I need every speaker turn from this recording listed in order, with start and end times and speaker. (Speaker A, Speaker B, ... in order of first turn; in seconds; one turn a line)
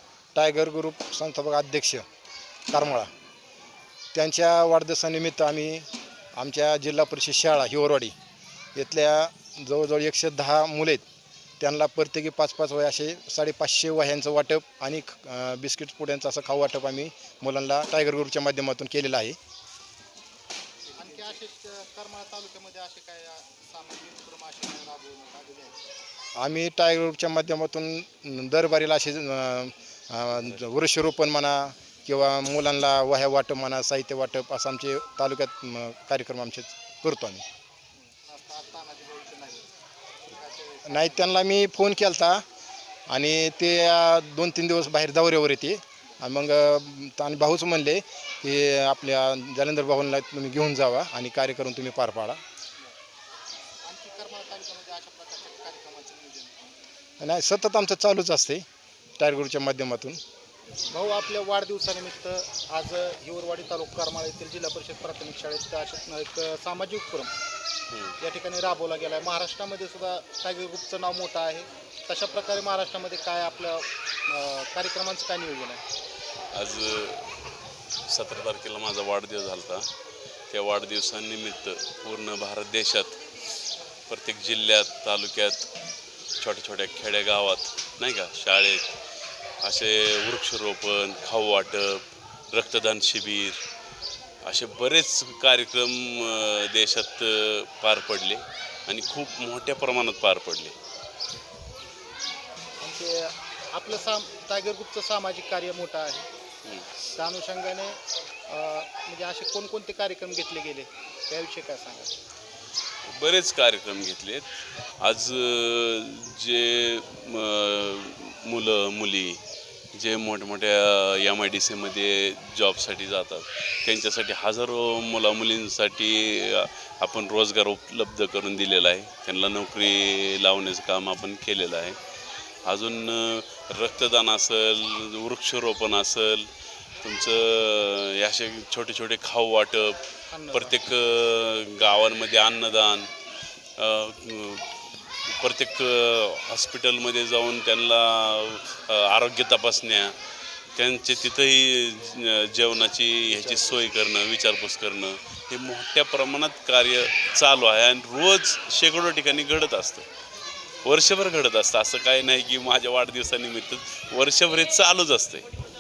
Speaker A: 0.3-2.0
Speaker A: 2.7-3.1
Speaker A: 4.1-8.1
Speaker A: 8.8-11.0
Speaker A: 11.6-19.4
Speaker B: 21.0-25.8
Speaker A: 26.4-37.4
Speaker B: 38.0-39.7
Speaker B: 40.3-41.3
Speaker A: 40.9-42.4
Speaker A: 43.1-52.4
Speaker B: 53.8-56.8
Speaker A: 57.2-58.6
Speaker A: 59.2-60.2
Speaker B: 60.9-67.3
Speaker C: 67.9-68.2
Speaker B: 68.2-75.8
Speaker C: 76.5-77.4
Speaker C: 78.1-79.9
Speaker C: 80.5-83.3
Speaker C: 84.1-85.7
Speaker C: 86.4-88.9
Speaker C: 89.6-93.6
Speaker C: 94.4-100.8
Speaker B: 102.8-106.3
Speaker B: 107.2-112.1
Speaker C: 113.1-114.5
Speaker C: 115.0-119.4
Speaker C: 119.9-132.0
Speaker C: 132.7-136.5
Speaker C: 137.0-143.1
Speaker B: 140.3-140.8
Speaker C: 143.8-150.2
Speaker C: 150.8-160.1
Speaker C: 160.8-165.5